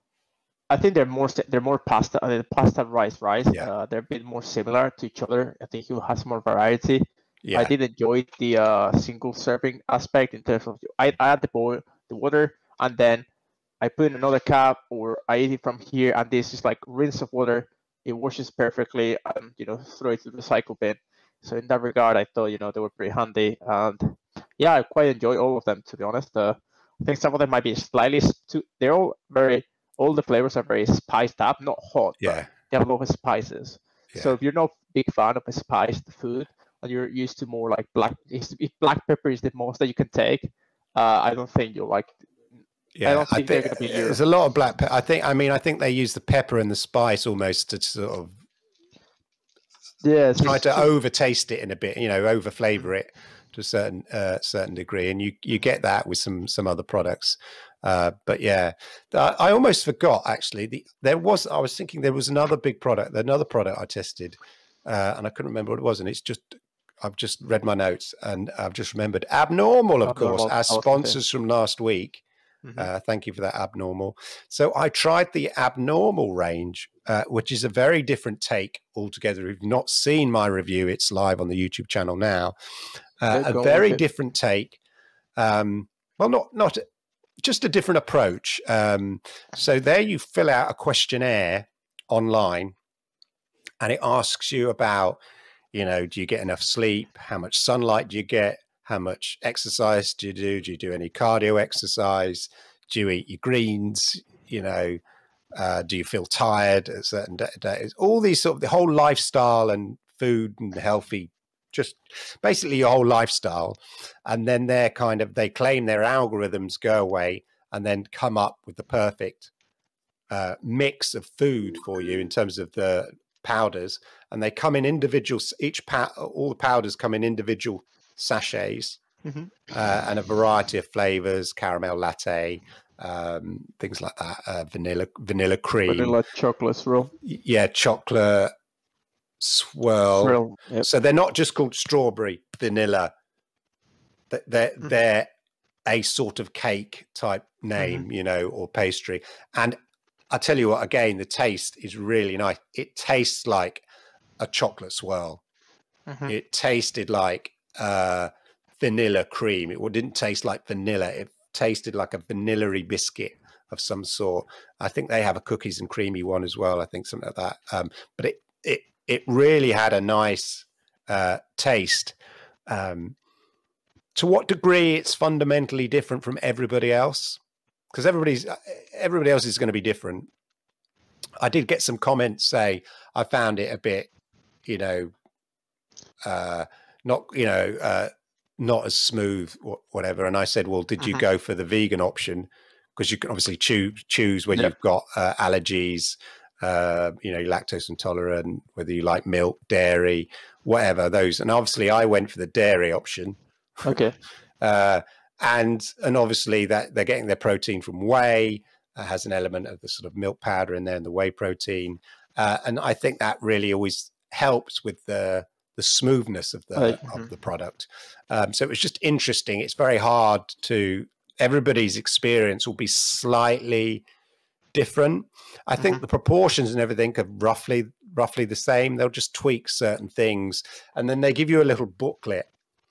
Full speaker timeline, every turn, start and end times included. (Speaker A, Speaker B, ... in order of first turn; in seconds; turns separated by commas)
Speaker A: 0.7-13.3, Speaker B: 7.4-7.7, Speaker A: 13.8-42.1, Speaker B: 32.2-32.5, Speaker B: 43.0-48.4, Speaker A: 43.0-44.2, Speaker A: 50.0-50.9, Speaker B: 50.4-72.2, Speaker A: 70.0-71.2, Speaker B: 72.8-82.5, Speaker B: 83.2-84.8, Speaker A: 83.3-84.0, Speaker B: 85.4-86.8, Speaker B: 87.4-92.8, Speaker B: 93.8-95.2, Speaker B: 95.7-105.0, Speaker B: 105.6-119.5, Speaker B: 120.3-129.0, Speaker A: 129.2-129.5, Speaker B: 129.7-136.1, Speaker A: 135.8-137.1, Speaker B: 137.2-138.5, Speaker B: 139.4-143.1, Speaker A: 140.2-140.9, Speaker B: 144.3-145.3, Speaker B: 145.9-149.8, Speaker B: 150.3-153.8, Speaker B: 154.4-155.4, Speaker B: 156.3-172.2, Speaker B: 172.7-173.2, Speaker B: 174.2-177.4, Speaker B: 177.9-180.3, Speaker B: 181.4-184.1, Speaker B: 184.7-185.1, Speaker B: 186.2-203.4, Speaker A: 203.8-204.2, Speaker B: 204.6-224.1, Speaker A: 216.8-217.3, Speaker B: 224.7-232.5